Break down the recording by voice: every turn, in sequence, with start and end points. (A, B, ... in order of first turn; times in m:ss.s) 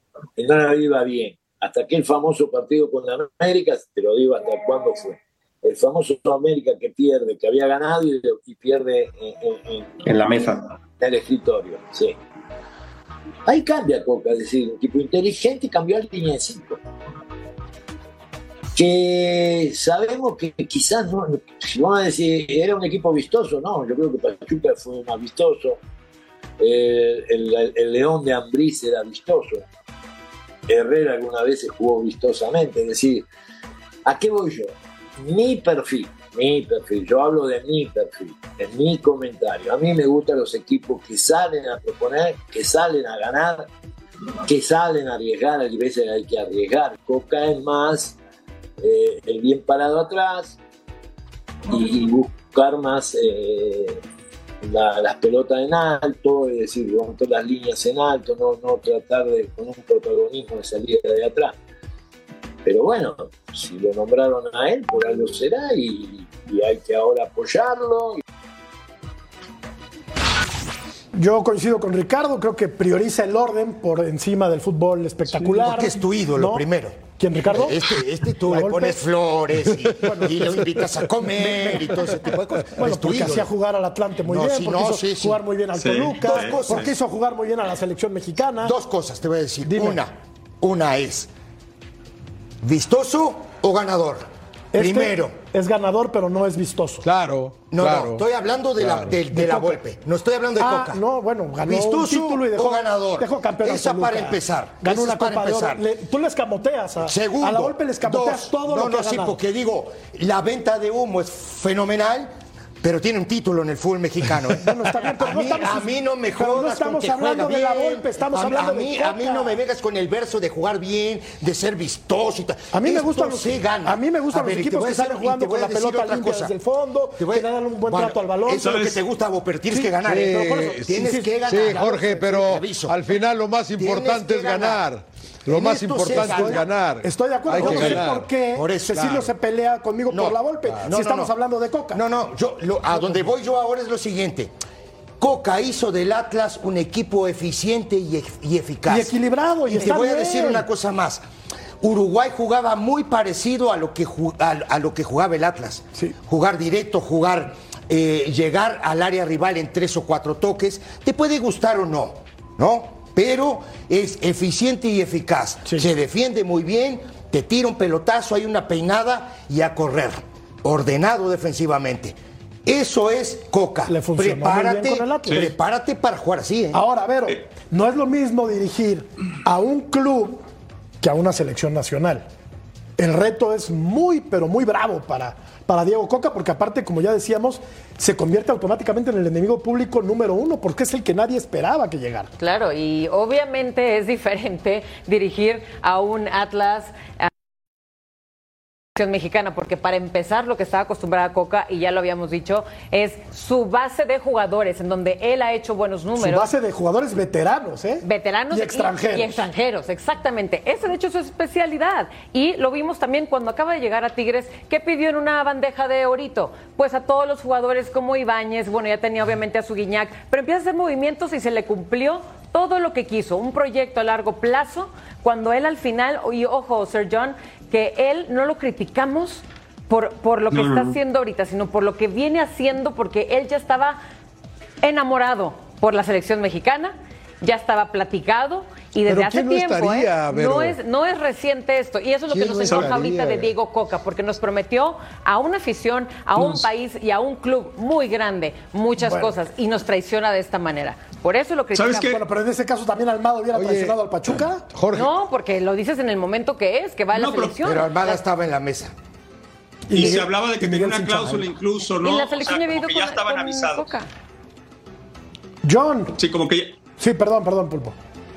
0:00.4-0:10.3 A
0:10.2-0:10.5 B
0:11.0-0:12.2 A
0:13.5-0:16.8 A
0:18.8-0:25.8 A
0:26.6-0:29.7 A
0:30.7-0:33.3 A
0:34.0-0:43.7 A
0:44.4-0:48.2 A
0:48.8-0:50.6 A
0:51.7-0:54.0 A
0:54.6-1:01.6 A
1:02.6-1:08.2 A
1:11.1-1:16.6 C
1:15.3-1:23.5 D
1:17.2-1:17.8 C
1:18.5-1:19.0 C
1:20.0-1:28.7 C
1:24.2-1:25.4 D
1:25.8-1:26.8 B
1:26.2-1:26.9 D
1:28.6-1:31.3 D
1:29.7-1:30.0 C
1:32.6-1:35.4 D
1:34.7-1:37.1 C
1:37.0-1:38.2 E
1:37.7-1:41.0 D
1:38.8-1:39.2 E
1:39.3-1:39.8 C
1:40.6-1:49.4 C
1:41.7-1:45.8 D
1:47.0-2:06.6 D
1:54.6-1:59.6 C
2:02.7-2:08.9 C
2:07.2-2:13.0 D
2:08.6-2:09.0 B
2:09.7-2:12.4 C
2:10.1-2:18.3 E
2:13.8-2:14.8 D
2:15.5-2:16.7 D
2:16.1-2:22.0 C
2:17.5-2:19.3 D
2:20.1-2:21.3 D
2:21.9-2:24.5 D
2:25.2-2:29.1 D
2:28.9-2:30.6 C
2:29.7-2:31.2 D
2:31.8-2:56.8 D
2:53.9-2:55.5 C
2:56.7-3:00.4 C
3:01.0-3:02.2 C
3:03.0-3:12.3 C
3:12.4-3:17.3 F
3:19.0-3:26.5 F
3:26.2-3:29.5 C
3:28.0-3:54.0 F
3:50.5-3:51.0 B
3:54.8-4:12.1 F
3:59.1-4:00.8 E
4:02.3-4:03.5 E
4:06.4-4:06.6 B
4:09.0-4:09.3 C
4:11.7-4:12.2 B
4:12.0-4:14.6 C
4:13.5-4:15.1 E
4:14.9-4:18.2 F
4:17.1-4:17.6 B
4:17.6-4:18.9 D
4:19.9-4:21.5 C
4:19.9-4:23.9 B
4:22.0-4:24.1 F
4:25.6-4:26.1 C
4:26.2-4:26.7 B
4:27.0-4:28.0 C